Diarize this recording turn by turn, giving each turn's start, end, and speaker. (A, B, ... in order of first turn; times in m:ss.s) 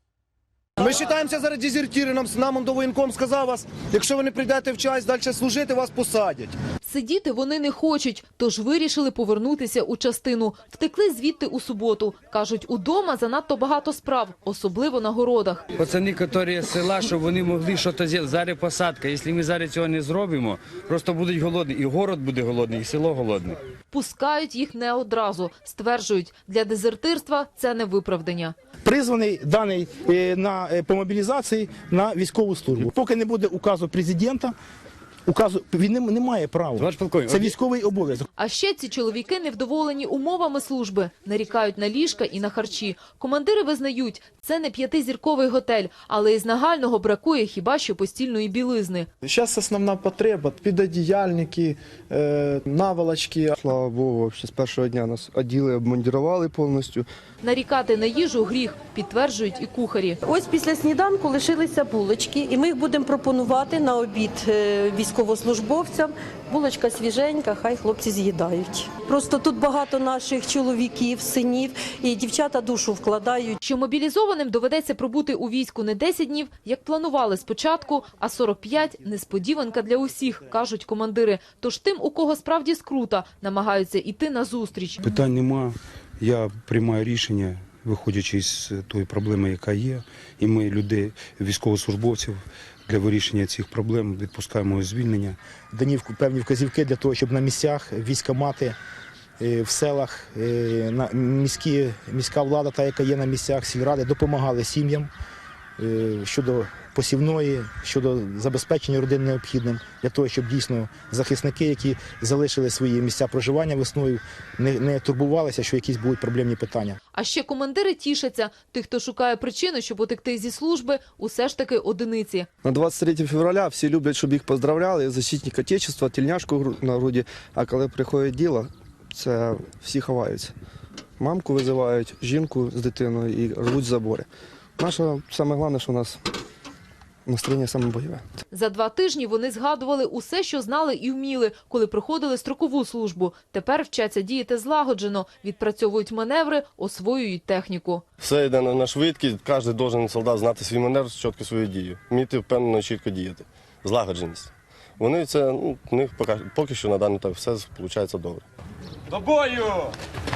0:00.8-0:03.6 A
0:00.9-0:01.3 B
0:03.6-0:04.0 B
0:04.1-0:06.3 A
0:04.5-0:04.9 B
0:06.8-0:15.6 C
0:15.7-0:23.6 D
0:23.9-0:28.6 C
0:28.8-0:34.5 E
0:35.3-0:38.3 E
0:36.8-0:37.5 D
0:38.4-0:49.1 C
0:49.2-0:53.6 B
0:53.6-0:57.1 F
0:57.4-1:00.2 C
1:00.2-1:13.6 G
1:13.6-1:25.0 C
1:25.0-1:35.4 H
1:35.7-1:38.8 E
1:39.4-1:45.1 E
1:45.8-1:57.0 E
1:57.1-2:02.5 C
2:02.6-2:10.5 F
2:11.2-2:14.3 F
2:14.8-2:16.2 F
2:17.3-2:18.2 F
2:18.5-2:28.0 C
2:28.2-2:38.4 I